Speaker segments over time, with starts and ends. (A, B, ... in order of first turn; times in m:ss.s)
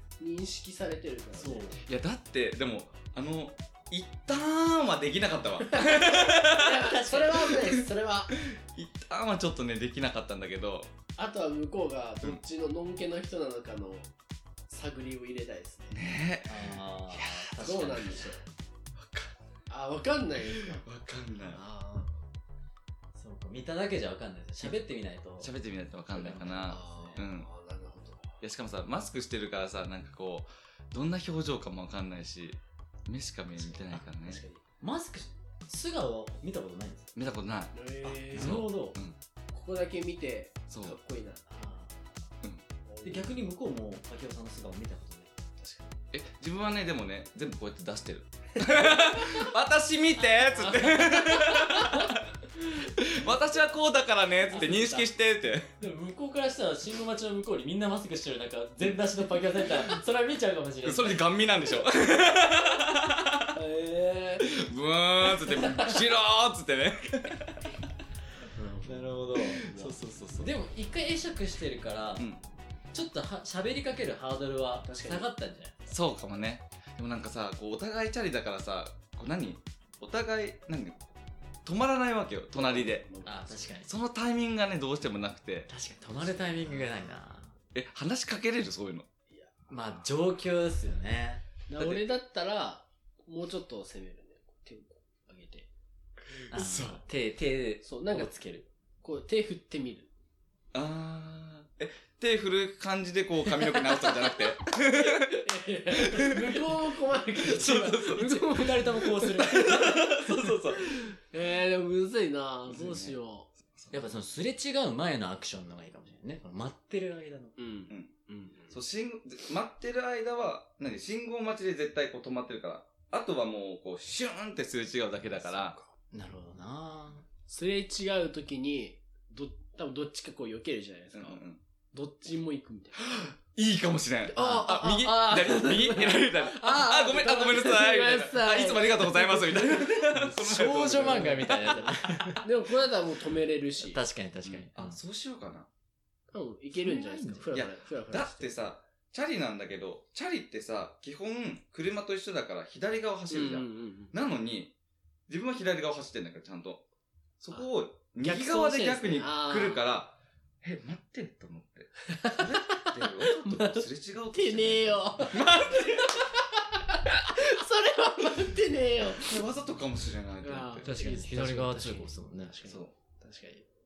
0:00.2-0:01.7 A
0:01.4-0:01.8 B
0:01.8-0:07.0 C
0:05.7-0:08.4 A
0:06.9-0:07.5 B
0:07.5-0:07.8 C
0:08.4-0:10.9 C
0:11.2-0:14.1 A
0:14.7-0:16.0 A
0:15.9-0:17.8 C
0:16.4-0:18.3 B
0:17.6-0:18.4 A
0:19.0-0:19.3 C
0:19.7-0:20.8 A
0:20.5-0:21.6 C
0:21.5-0:22.2 A
0:23.1-0:25.5 B
0:25.4-0:27.5 C
0:26.1-0:27.2 B
0:26.6-0:28.2 A
0:28.4-0:34.4 C
0:34.1-0:34.6 A
0:34.8-0:37.1 B
0:37.1-0:37.7 C
0:37.7-0:38.5 A
0:38.0-0:39.0 B
0:38.3-0:39.2 C
0:39.5-0:41.8 A
0:40.7-0:41.0 C
0:42.8-0:43.4 A
0:43.0-0:45.4 B
0:45.6-0:45.9 A
0:46.1-0:52.2 C
0:50.7-0:51.0 B
0:51.2-0:52.0 A
0:52.9-0:55.7 C
0:54.5-0:55.1 B
0:55.8-1:01.4 B
1:00.8-1:03.5 C
1:03.5-1:04.6 A
1:04.4-1:07.6 C
1:05.4-1:06.0 A
1:08.6-1:09.8 B
1:08.6-1:08.9 A
1:09.3-1:10.5 C
1:09.5-1:09.9 A
1:10.4-1:12.3 B
1:12.9-1:15.9 B
1:14.8-1:15.3 A
1:15.9-1:21.1 C
1:21.6-1:23.0 C
1:22.5-1:23.7 A
1:23.2-1:23.9 B
1:23.8-1:25.7 C
1:25.7-1:27.5 B
1:27.7-1:29.1 C
1:29.7-1:31.4 B
1:31.7-1:35.7 A
1:36.5-1:37.0 C
1:36.5-1:38.3 B
1:37.8-1:40.1 A
1:40.7-1:46.6 C
1:44.0-1:44.3 A
1:45.0-1:50.0 A
1:47.5-1:48.8 C
1:47.7-1:50.5 B
1:49.4-1:51.0 C
1:51.0-1:53.5 A
1:52.7-1:53.1 C
1:53.8-1:54.1 C
1:53.9-1:57.5 B
1:57.6-1:58.8 A
1:58.7-2:05.8 C
2:05.4-2:05.8 A
2:06.1-2:07.2 B
2:07.5-2:13.0 A
2:11.1-2:11.6 C
2:13.0-2:22.4 C
2:14.3-2:24.6 A
2:14.4-2:14.7 B
2:20.2-2:22.4 B
2:23.8-2:25.0 B
2:24.7-2:25.7 C
2:26.3-2:28.5 A
2:26.8-2:27.5 B
2:27.5-2:34.7 C
2:33.3-2:34.1 A
2:35.3-2:36.8 C
2:37.4-2:46.2 C
2:38.2-2:39.8 A
2:42.1-2:49.4 A
2:49.2-2:50.9 C
2:50.4-2:53.6 A
2:50.8-2:52.5 B
2:52.6-2:52.9 C